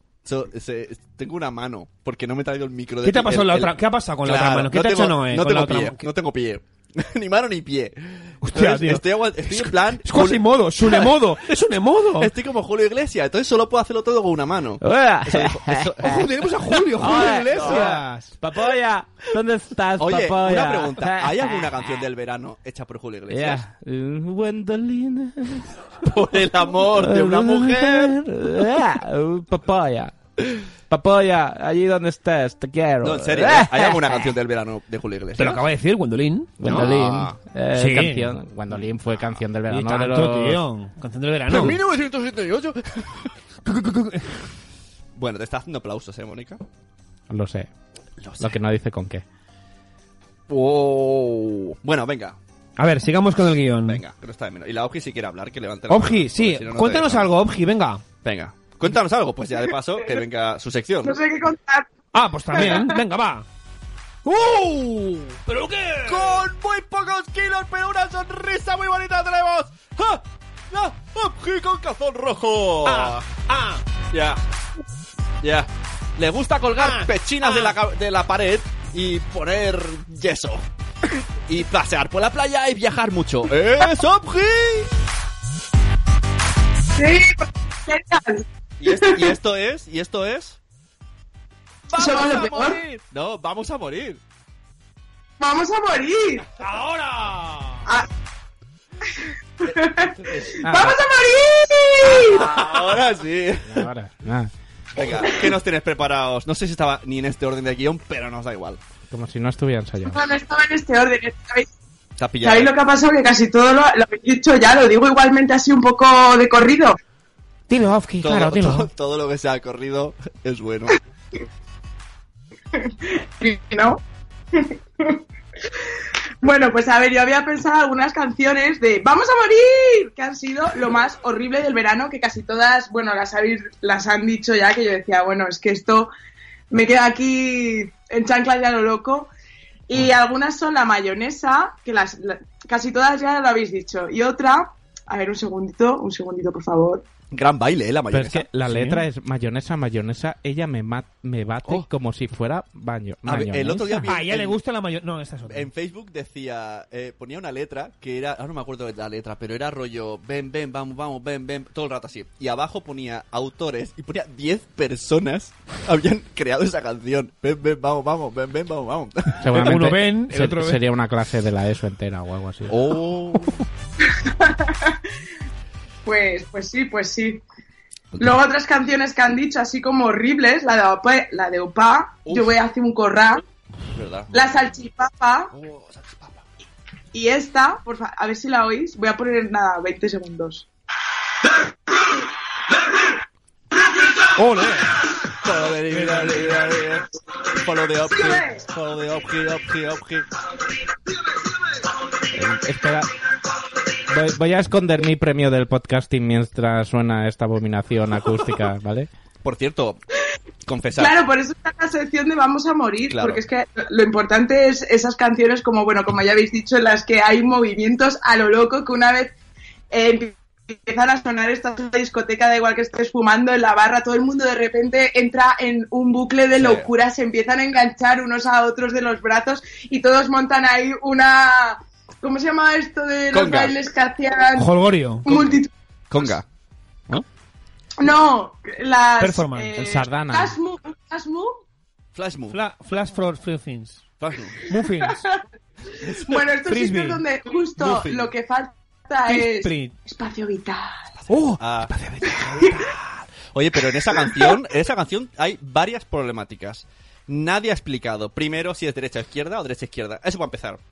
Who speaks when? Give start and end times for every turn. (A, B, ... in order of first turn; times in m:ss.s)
0:00.2-0:03.7 A
0:03.0-0:06.0 B
0:04.2-0:11.2 A
0:08.4-0:12.3 B
0:12.2-0:16.3 A
0:14.8-0:16.2 C
0:16.0-0:18.4 B
0:16.9-0:18.0 A
0:17.0-0:22.0 C
0:20.0-0:23.7 A
0:23.3-0:25.8 C
0:26.0-0:28.1 A
0:26.8-0:30.1 C
0:30.9-0:34.3 C
0:33.0-0:35.6 A
0:35.4-0:37.0 B
0:36.6-0:40.6 C
0:36.6-0:37.4 A
0:37.7-0:38.3 B
0:38.7-0:39.4 A
0:39.7-0:41.8 B
0:41.5-0:43.3 A
0:43.6-0:44.3 B
0:45.1-0:46.6 A
0:47.3-0:47.7 C
0:48.2-0:48.6 A
0:48.4-0:49.2 C
0:50.5-0:52.4 A
0:52.8-0:54.0 B
0:53.9-0:57.3 A
0:55.9-0:58.0 B
0:58.2-1:01.2 A
1:01.0-1:01.9 D
1:02.1-1:03.4 B
1:02.5-1:02.9 D
1:04.2-1:06.4 B
1:06.0-1:13.2 A
1:12.8-1:13.8 B
1:14.1-1:14.4 A
1:15.4-1:20.6 A
1:16.8-1:17.8 B
1:21.4-1:25.0 A
1:27.0-1:29.3 D
1:28.8-1:30.6 A
1:31.9-1:34.2 A
1:31.9-1:32.8 D
1:35.4-1:36.4 D
1:36.6-1:37.8 B
1:39.6-1:42.6 D
1:39.6-1:40.9 A
1:40.6-1:41.0 C
1:42.1-1:43.9 A
1:43.7-1:44.5 C
1:45.0-1:48.8 A
1:49.1-1:50.2 C
1:50.1-1:51.7 D
1:52.2-1:52.7 A
1:52.4-1:57.0 D
1:57.7-1:58.9 B
1:58.2-2:01.0 A
2:02.8-2:04.0 D
2:04.5-2:05.2 D
2:06.4-2:16.1 D
2:16.7-2:19.3 D
2:19.9-2:27.0 D
2:27.3-2:28.5 A
2:28.1-2:34.1 C
2:28.7-2:29.0 B
2:33.2-2:34.6 A
2:34.1-2:35.7 B
2:35.5-2:49.8 A
2:49.4-2:52.8 C
2:49.5-2:50.8 B
2:52.7-2:53.6 A
2:54.2-2:55.0 D
2:56.0-2:57.4 D
2:58.2-3:03.4 D
3:02.2-3:02.6 A
3:03.9-3:04.5 A
3:04.3-3:05.5 D
3:05.5-3:06.4 A
3:07.1-3:10.6 D
3:14.4-3:14.9 B
3:15.4-3:17.0 A
3:15.9-3:16.7 B
3:17.6-3:20.2 A
3:18.1-3:18.6 D
3:22.3-3:23.1 C
3:24.1-3:29.1 C
3:29.4-3:30.0 A
3:30.6-3:31.2 A
3:31.0-3:39.3 D
3:33.1-3:33.4 A
3:39.9-3:54.7 D
3:46.6-3:46.9 A
3:53.3-3:53.7 A
3:54.6-3:55.3 B
3:55.2-3:55.7 D
3:55.3-3:55.5 A
3:56.1-3:56.4 A
3:58.0-4:01.6 D
3:59.2-3:59.8 B
3:59.8-4:00.6 C
4:02.1-4:02.6 A
4:02.5-4:04.0 B
4:04.2-4:04.6 A
4:04.6-4:05.2 B
4:06.0-4:06.4 A
4:06.2-4:11.0 D
4:06.7-4:07.2 B
4:07.8-4:08.3 A
4:09.2-4:09.9 B
4:11.2-4:11.9 A
4:11.3-4:13.0 B
4:13.3-4:20.8 A